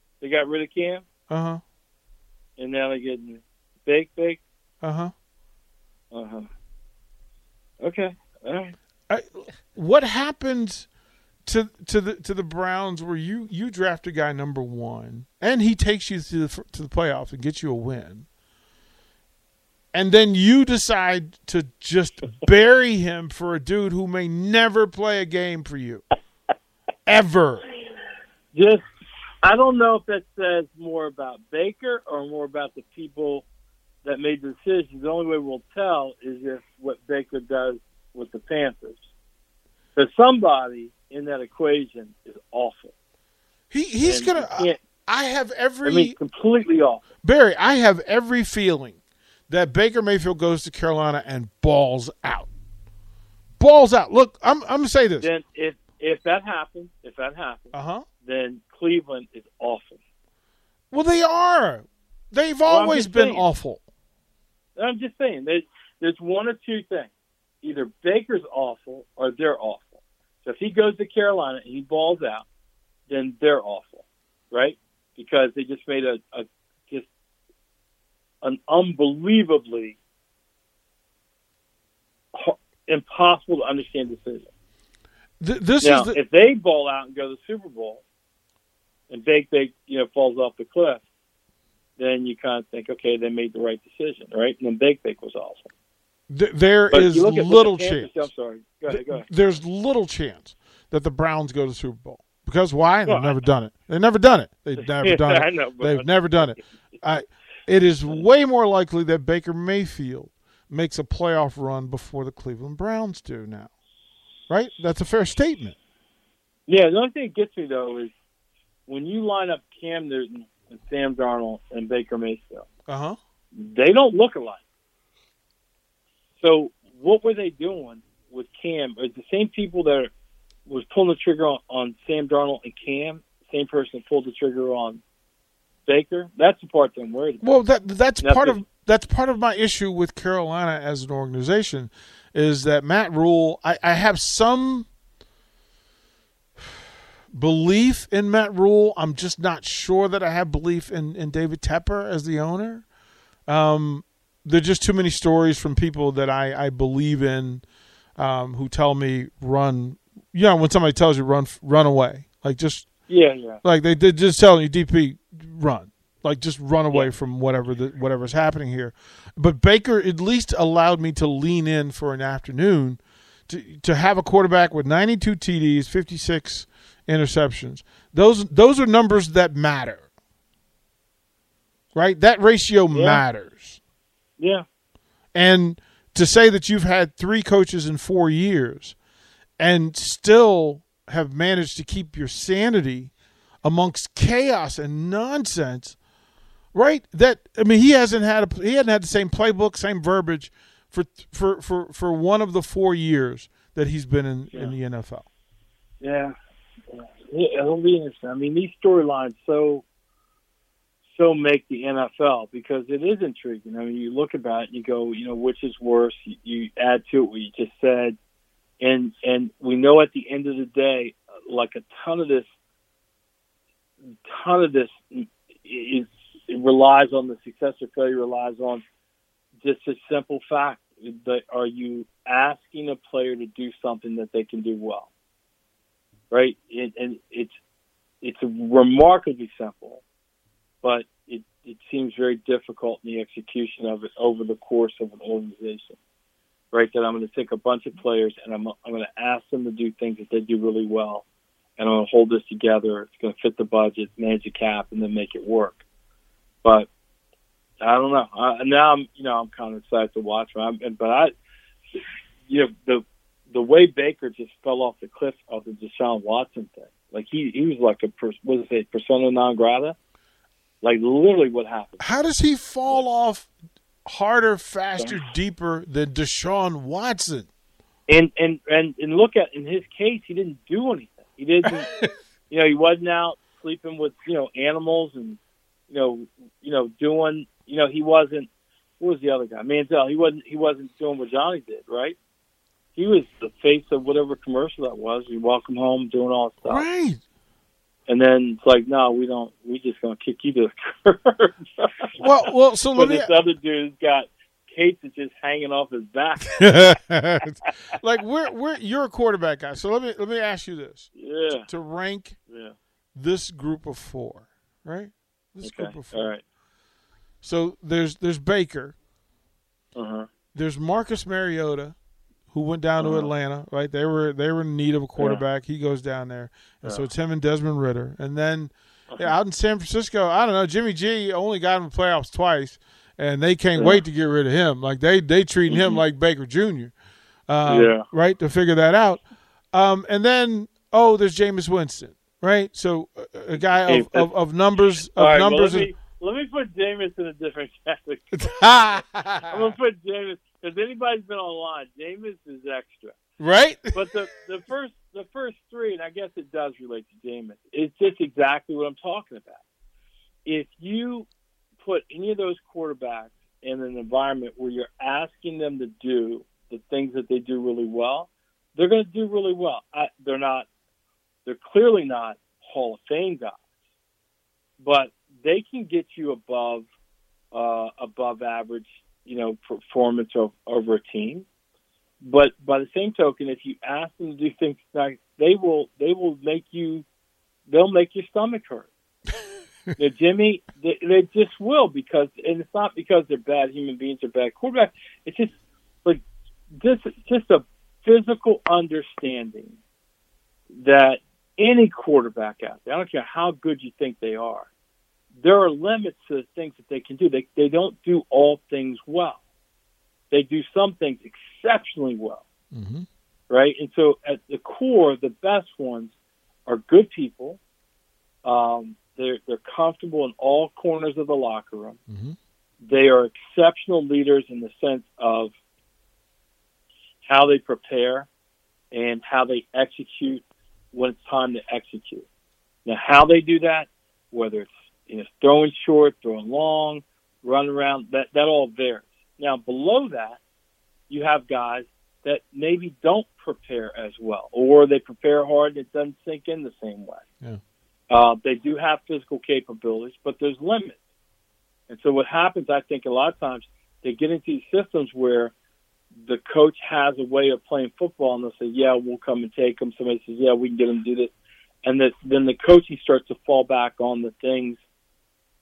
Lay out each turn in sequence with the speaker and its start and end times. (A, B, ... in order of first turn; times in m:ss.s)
0:00.2-0:01.0 A
0:01.3-0:01.6 B
0:02.6-0:04.4 A
0:04.8-0:05.1 B
0:06.1-0:06.5 A
0:07.8-0:08.8 A
0:09.1-0:10.9 B
0:11.4-0:18.2 B
0:19.9-0:26.0 B
0:27.0-0:27.7 B
0:28.5-0:28.8 A
0:29.4-0:33.4 A
0:34.0-0:39.0 A
0:39.9-0:42.9 A
0:43.7-0:46.2 B
0:44.0-0:44.8 A
0:45.8-0:47.0 A
0:47.2-0:49.0 B
0:49.5-0:52.5 B
0:53.6-0:55.3 B
0:55.2-1:00.0 A
0:57.7-0:58.0 B
1:00.9-1:03.8 B
1:02.6-1:03.5 A
1:04.8-1:07.1 A
1:07.6-1:12.4 A
1:13.1-1:17.1 A
1:18.4-1:20.0 A
1:22.3-1:24.5 A
1:25.4-1:26.2 B
1:25.8-1:28.0 A
1:29.1-1:31.0 A
1:32.0-1:35.7 A
1:36.3-1:38.3 B
1:36.9-1:39.3 A
1:38.9-1:53.7 B
1:43.1-1:43.4 A
1:44.8-1:46.6 A
1:54.5-1:55.8 B
1:56.7-1:58.1 A
1:58.8-2:02.7 A
2:02.9-2:03.2 B
2:03.5-2:04.6 A
2:06.4-2:10.1 A
2:10.6-2:15.0 A
2:15.8-2:17.5 A
2:17.4-2:24.9 B
2:18.2-2:18.6 A
2:27.3-2:32.8 B
2:33.5-2:37.6 B
2:38.2-2:42.9 B
2:43.1-2:43.6 A
2:43.6-3:00.0 B
3:01.9-3:03.8 B
3:02.9-3:03.2 A
3:04.4-3:04.6 A
3:05.3-3:09.0 B
3:09.6-3:13.1 B
3:13.6-3:16.0 B
3:16.7-3:25.2 B
3:26.0-3:26.3 A
3:26.9-3:29.8 A
3:31.1-3:38.2 A
3:38.8-3:42.4 A
3:44.2-3:48.8 A
3:49.6-3:55.1 A
3:56.3-3:57.6 A
3:58.2-4:00.0 A
4:00.8-4:06.0 A
4:06.7-4:11.2 A
4:11.8-4:15.8 A
4:17.8-4:21.3 A
4:21.9-4:30.0 A
4:30.8-4:32.1 A
4:32.0-4:33.5 B
4:34.0-4:37.5 B
4:38.1-4:41.9 A
4:41.6-4:42.1 B
4:42.5-4:48.5 A
4:49.0-4:52.2 A
4:52.9-4:56.8 A
4:56.6-4:57.2 B
4:58.1-5:02.2 A
5:02.2-5:03.3 B
5:02.9-5:06.8 A
5:06.5-5:12.4 B
5:11.2-5:11.7 A
5:12.5-5:12.7 A
5:13.1-5:16.3 B
5:15.6-5:16.4 A
5:17.4-5:19.0 B
5:19.9-5:20.3 A
5:20.5-5:22.0 B
5:22.5-5:36.9 B
5:23.0-5:23.3 A
5:25.2-5:25.4 A
5:33.8-5:34.0 A
5:35.7-5:36.0 A
5:37.5-5:45.9 B
5:37.6-5:38.0 A
5:43.8-5:44.3 A
5:45.0-5:53.2 A
5:48.3-5:49.7 B
5:53.4-5:54.2 B
5:53.9-5:59.6 A
6:00.4-6:01.3 A
6:01.8-6:10.7 A
6:11.4-6:13.6 A
6:14.8-6:16.8 A
6:17.5-6:21.4 A
6:22.2-6:27.0 A
6:27.6-6:28.9 A
6:30.0-6:39.8 A
6:40.7-6:44.7 A
6:45.3-6:49.4 A
6:50.3-6:52.4 A
6:52.7-6:53.0 B
6:53.5-6:56.1 A
6:56.6-6:57.6 A
6:58.4-7:02.0 A
7:02.1-7:02.4 B
7:02.8-7:05.5 A
7:07.2-7:08.3 A
7:08.9-7:12.2 A
7:12.8-7:20.4 A
7:21.1-7:27.2 A
7:28.1-7:31.0 A
7:31.9-7:35.5 A
7:36.2-7:41.3 A
7:41.8-7:44.8 A